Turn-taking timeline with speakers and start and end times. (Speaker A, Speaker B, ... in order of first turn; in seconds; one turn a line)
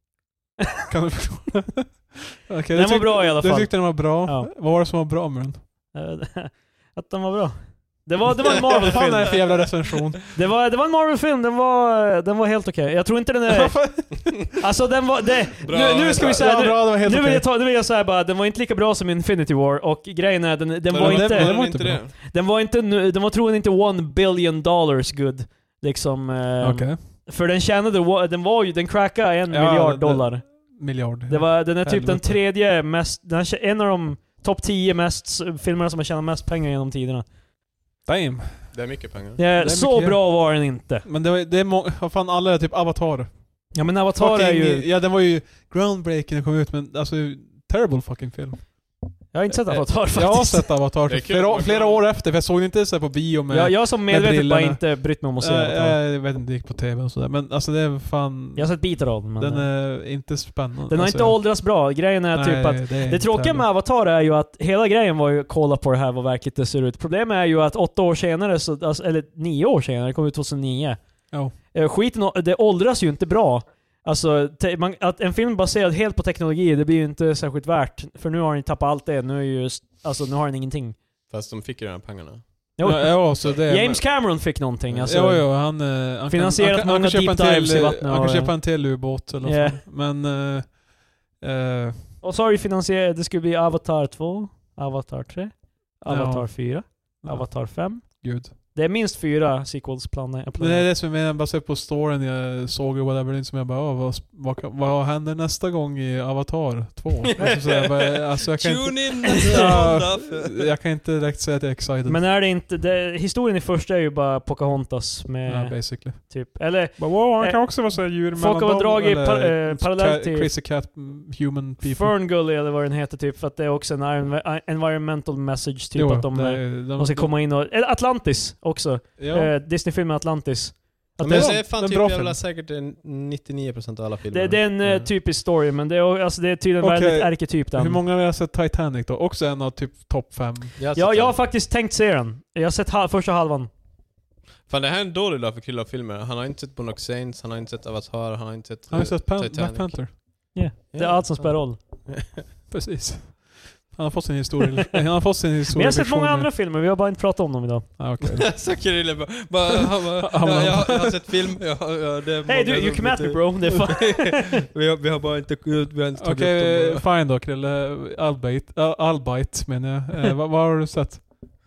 Speaker A: 0.9-5.7
Speaker B: 2.7-4.5
Speaker B: 5.9-30.5
Speaker A: 8.5-10.3
Speaker A: 13.5-14.6
Speaker C: 15.6-16.5
Speaker A: 15.8-17.5
Speaker C: 20.9-22.1
Speaker A: 20.9-22.0
Speaker A: 26.6-27.0
Speaker A: 29.5-32.4
Speaker B: 31.3-37.3
Speaker A: 38.1-38.9
Speaker C: 38.7-39.4
Speaker B: 39.4-41.0
Speaker A: 39.6-63.7
Speaker B: 43.7-44.9
Speaker B: 49.3-50.7
Speaker C: 51.1-52.0
Speaker B: 53.5-56.0
Speaker B: 58.5-59.7
Speaker B: 60.9-81.0
Speaker C: 81.3-82.5
Speaker B: 82.8-89.8
Speaker A: 82.8-84.5
Speaker C: 84.9-85.1
Speaker A: 85.0-92.1
Speaker B: 92.2-100.9
Speaker A: 96.0-98.5
Speaker A: 100.6-112.2
Speaker C: 107.4-110.7
Speaker B: 109.4-109.8
Speaker B: 112.1-120.5
Speaker A: 115.5-122.2
Speaker B: 121.8-131.6
Speaker A: 126.0-127.3
Speaker A: 129.2-129.5
Speaker A: 131.2-132.4
Speaker C: 131.2-135.1
Speaker B: 134.3-138.0
Speaker A: 136.8-140.8
Speaker C: 140.8-141.4
Speaker B: 140.9-143.7
Speaker C: 144.7-152.4
Speaker A: 148.9-150.6
Speaker B: 150.5-151.8
Speaker A: 152.7-156.5
Speaker B: 155.7-157.9
Speaker A: 158.0-158.6
Speaker C: 158.2-167.1
Speaker A: 160.2-161.3
Speaker B: 162.5-164.6
Speaker A: 166.2-171.5